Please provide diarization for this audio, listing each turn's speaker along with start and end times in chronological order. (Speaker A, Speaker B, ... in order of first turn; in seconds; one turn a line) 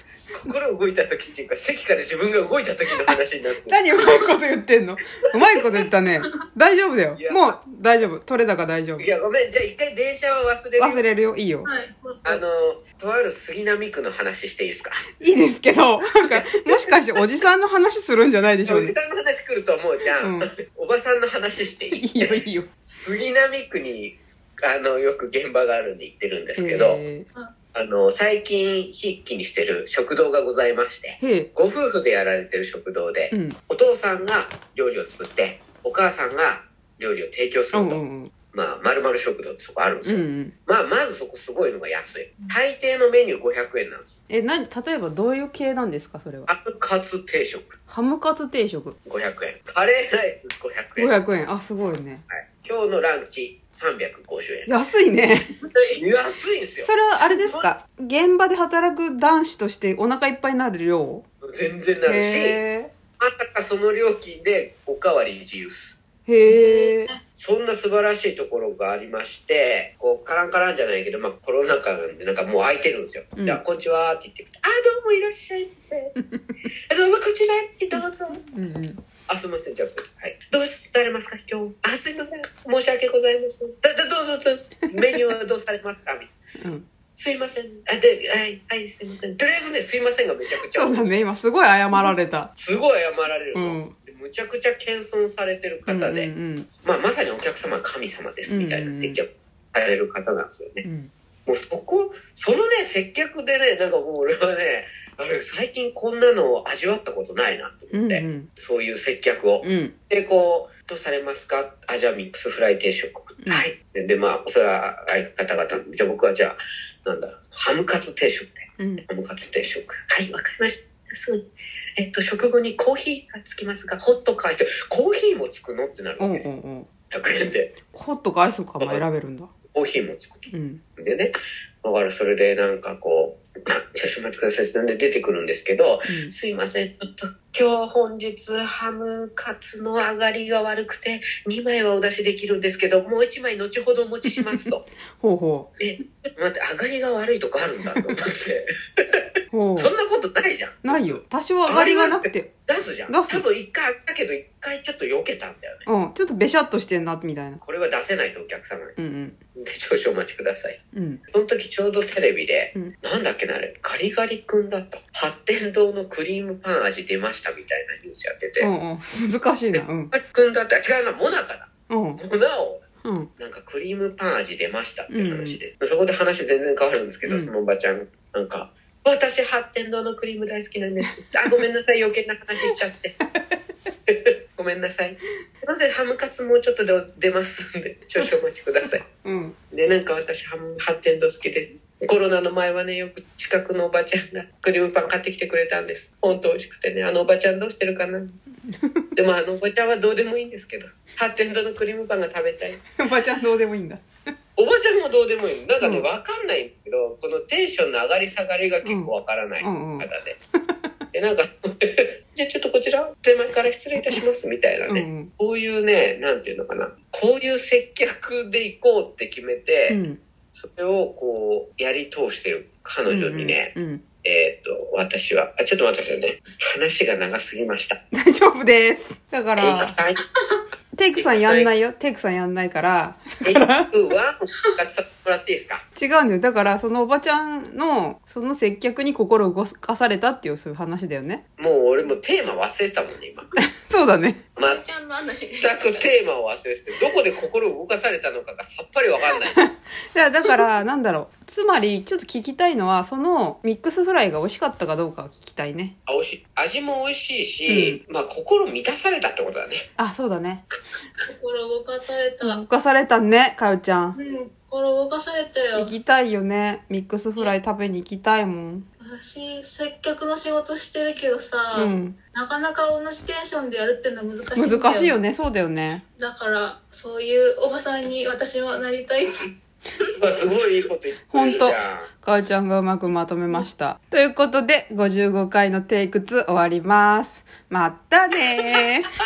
Speaker A: 0.3-4.3
Speaker B: 2.9-9.1
Speaker A: 7.2-7.6
Speaker A: 9.0-11.1
Speaker B: 10.8-11.7
Speaker C: 11.6-12.4
Speaker A: 12.2-15.1
Speaker B: 15.2-18.9
Speaker A: 16.2-16.8
Speaker A: 18.6-27.1
Speaker B: 20.2-20.5
Speaker B: 21.9-22.7
Speaker B: 26.6-27.3
Speaker A: 27.7-44.2
Speaker B: 31.2-31.5
Speaker B: 33.3-33.6
Speaker B: 37.7-38.3
Speaker B: 40.0-40.5
Speaker B: 44.3-46.5
Speaker A: 46.5-47.8
Speaker B: 47.9-49.0
Speaker A: 49.0-51.1
Speaker B: 51.0-52.2
Speaker A: 52.3-54.7
Speaker B: 54.7-55.4
Speaker C: 55.6-56.0
Speaker A: 56.0-57.7
Speaker B: 56.8-61.3
Speaker A: 61.4-62.6
Speaker B: 62.0-62.9
Speaker A: 63.2-66.0
Speaker B: 66.3-67.1
Speaker C: 66.5-67.2
Speaker A: 67.3-76.1
Speaker B: 73.4-73.6
Speaker B: 76.2-76.5
Speaker A: 76.9-78.4
Speaker B: 77.9-79.0
Speaker A: 79.3-86.3
Speaker B: 84.9-85.3
Speaker B: 86.6-86.9
Speaker A: 87.2-91.2
Speaker B: 90.7-92.5
Speaker A: 92.5-96.3
Speaker B: 93.5-93.9
Speaker B: 95.9-96.7
Speaker A: 96.8-100.8
Speaker B: 98.5-99.2
Speaker B: 100.8-101.1
Speaker A: 101.5-126.5
Speaker B: 107.9-108.5
Speaker B: 109.6-109.9
Speaker B: 113.4-113.7
Speaker B: 118.8-119.0
Speaker B: 126.2-126.9
Speaker A: 127.1-127.7
Speaker B: 127.9-129.5
Speaker A: 128.8-129.1
Speaker A: 129.7-144.8
Speaker B: 130.5-130.8
Speaker B: 136.0-136.3
Speaker B: 144.2-145.7
Speaker A: 145.8-149.2
Speaker B: 149.5-149.9
Speaker A: 149.8-155.9
Speaker B: 150.8-152.5
Speaker B: 153.1-153.4
Speaker B: 155.9-157.6
Speaker A: 157.6-159.0
Speaker B: 159.0-159.4
Speaker A: 159.6-160.8
Speaker B: 160.9-161.2
Speaker A: 161.3-168.7
Speaker B: 168.6-170.1
Speaker A: 169.7-172.8
Speaker B: 171.9-172.2
Speaker B: 173.0-173.3
Speaker A: 173.4-183.2
Speaker B: 175.1-175.6
Speaker B: 177.2-177.5
Speaker B: 181.0-181.6
Speaker B: 183.3-183.6
Speaker A: 184.1-189.0
Speaker B: 188.8-189.6
Speaker A: 189.7-198.4
Speaker B: 198.7-199.0
Speaker A: 199.2-202.9
Speaker B: 203.0-204.1
Speaker A: 204.6-210.4
Speaker B: 205.8-206.1
Speaker B: 208.8-209.1
Speaker B: 209.6-210.1
Speaker B: 210.7-210.9
Speaker A: 211.1-228.0
Speaker B: 214.9-215.3
Speaker B: 219.9-220.2
Speaker B: 223.1-224.0
Speaker B: 228.1-230.0
Speaker A: 229.6-230.2
Speaker B: 230.9-233.9
Speaker A: 231.2-231.7
Speaker A: 233.4-235.8
Speaker B: 236.0-241.4
Speaker A: 241.6-243.5
Speaker B: 243.8-244.4
Speaker A: 244.6-244.8
Speaker C: 244.6-245.8
Speaker A: 245.6-249.6
Speaker B: 249.5-256.0
Speaker A: 256.1-259.9
Speaker B: 257.7-258.0
Speaker B: 260.0-260.6
Speaker C: 261.3-262.6
Speaker B: 262.4-264.2
Speaker C: 264.1-265.9
Speaker B: 265.7-268.9
Speaker C: 269.0-275.1
Speaker B: 271.7-272.2
Speaker B: 274.6-276.0
Speaker C: 276.2-279.5
Speaker A: 280.1-282.1
Speaker B: 281.3-289.1